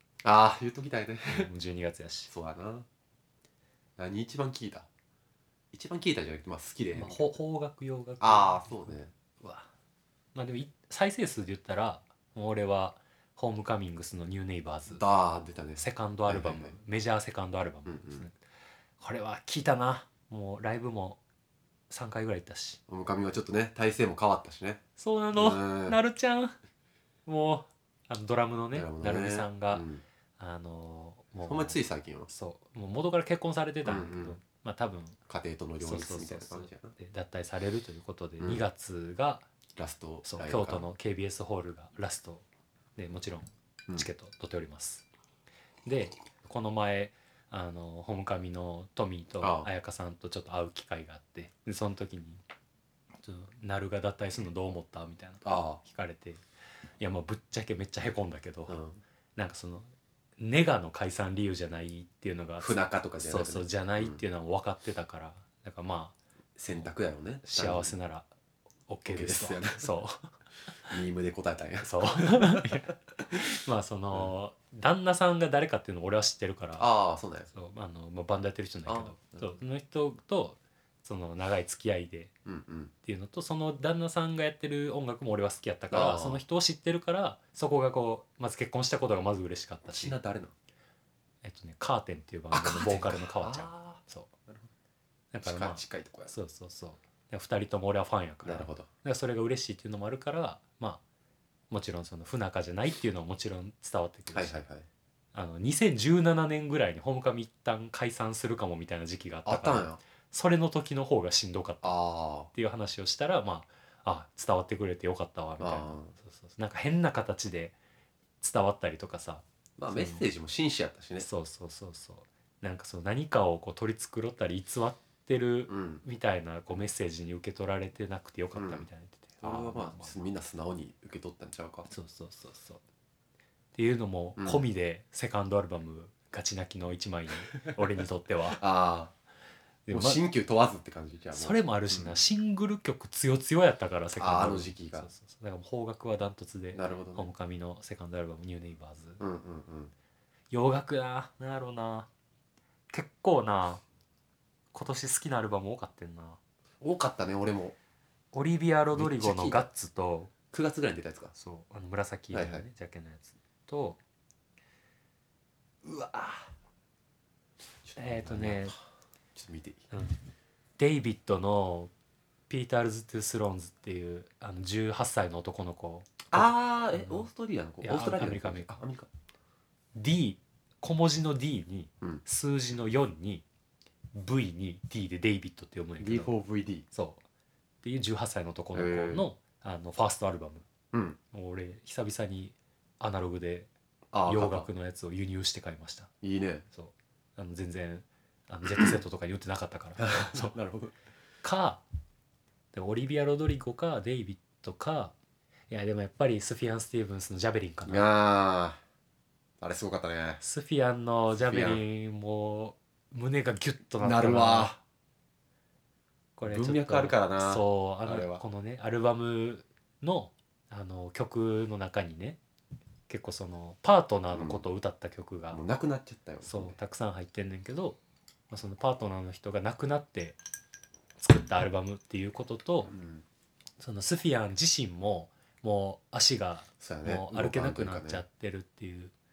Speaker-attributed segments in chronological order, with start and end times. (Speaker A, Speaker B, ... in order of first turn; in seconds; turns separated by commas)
Speaker A: 0.2-1.5, Speaker B: 1.3-2.3, Speaker A: 2.3-2.9, Speaker A: 4.0-4.9, Speaker A: 5.7-7.3, Speaker B: 6.9-9.7, Speaker A: 8.2-9.1, Speaker B: 10.3-15.0, Speaker A: 14.9-16.8, Speaker B: 15.8-18.4, Speaker A: 17.9-18.2, Speaker B: 19.0-21.2, Speaker B: 21.9-22.8, Speaker A: 22.9-24.8, Speaker B: 25.0-26.5, Speaker A: 25.3-26.0, Speaker B: 27.2-29.9, Speaker A: 28.7-30.0, Speaker B: 30.4-35.2, Speaker A: 31.4-32.3, Speaker A: 33.8-34.4, Speaker A: 35.3-36.9, Speaker B: 35.8-39.4, Speaker A: 39.8-40.8, Speaker B: 40.2-42.4, Speaker B: 43.0-45.0, Speaker B: 45.8-52.4, Speaker A: 49.4-49.7, Speaker B: 53.2-56.4, Speaker A: 55.4-55.8, Speaker B: 57.0-58.8, Speaker A: 58.7-59.0, Speaker B: 59.4-66.2, Speaker A: 62.6-64.2, Speaker A: 66.6-67.9, Speaker B: 67.4-68.3, Speaker B: 68.9-70.3, Speaker A: 69.1-69.9, Speaker A: 70.9-73.4, Speaker B: 71.8-76.9, Speaker A: 76.8-77.5, Speaker B: 77.5-82.3, Speaker A: 78.8-79.5, Speaker A: 82.5-82.9, Speaker B: 83.0-90.1, Speaker A: 85.9-86.4, Speaker A: 89.9-90.5, Speaker B: 91.4-94.3, Speaker A: 92.5-94.7, Speaker B: 95.3-101.0, Speaker A: 95.4-96.3, Speaker A: 98.4-98.9, Speaker B: 101.7-104.6, Speaker A: 104.3-104.8, Speaker B: 105.3-112.0, Speaker A: 109.5-110.0, Speaker A: 111.8-112.5, Speaker B: 112.5-117.7, Speaker A: 115.6-116.1, Speaker B: 118.4-120.3, Speaker A: 119.8-121.3, Speaker B: 121.2-130.2, Speaker A: 125.7-126.0, Speaker A: 128.5-128.9, Speaker A: 129.4-131.9, Speaker B: 131.9-132.8, Speaker B: 133.7-138.6, Speaker A: 134.4-134.7, Speaker A: 138.5-139.1, Speaker B: 139.8-140.2, Speaker A: 139.9-142.2, Speaker B: 141.3-149.2, Speaker A: 144.2-145.1, Speaker A: 146.7-147.3, Speaker A: 149.2-149.9, Speaker B: 150.5-152.1, Speaker B: 152.9-153.8, Speaker B: 154.7-156.4, Speaker A: 156.8-157.7, Speaker B: 158.3-160.3, Speaker A: 158.9-159.7, Speaker A: 160.5-161.3, Speaker B: 161.3-164.0, Speaker A: 162.3-162.6, Speaker A: 165.8-166.5, Speaker A: 167.8-168.8, Speaker B: 167.9-168.8, Speaker A: 169.3-169.9, Speaker B: 169.9-170.2, Speaker B: 170.8-171.9, Speaker B: 172.5-177.3, Speaker A: 176.3-179.1, Speaker B: 177.8-178.7, Speaker B: 179.9-183.4, Speaker B: 184.1-186.3, Speaker A: 186.0-186.9, Speaker B: 186.9-187.2, Speaker B: 187.8-190.6, Speaker A: 188.7-189.2, Speaker A: 190.9-191.2, Speaker B: 191.3-193.7, Speaker A: 194.1-194.7, Speaker B: 194.3-196.1, Speaker A: 196.2-196.6, Speaker B: 196.7-200.5, Speaker A: 200.0-200.9, Speaker B: 201.4-201.8, Speaker B: 202.7-205.1, Speaker B: 205.7-208.1, Speaker A: 207.8-208.8, Speaker A: 209.6-210.4, Speaker B: 210.4-214.7, Speaker A: 211.3-211.8, Speaker A: 214.0-214.8, Speaker B: 216.3-222.4, Speaker A: 216.5-218.4, Speaker B: 223.1-225.6, Speaker A: 224.3-224.7, Speaker A: 225.5-226.8, Speaker B: 226.4-228.0, Speaker B: 228.5-230.4, Speaker B: 231.2-232.9, Speaker A: 232.8-233.2, Speaker B: 233.8-239.1, Speaker A: 236.8-238.2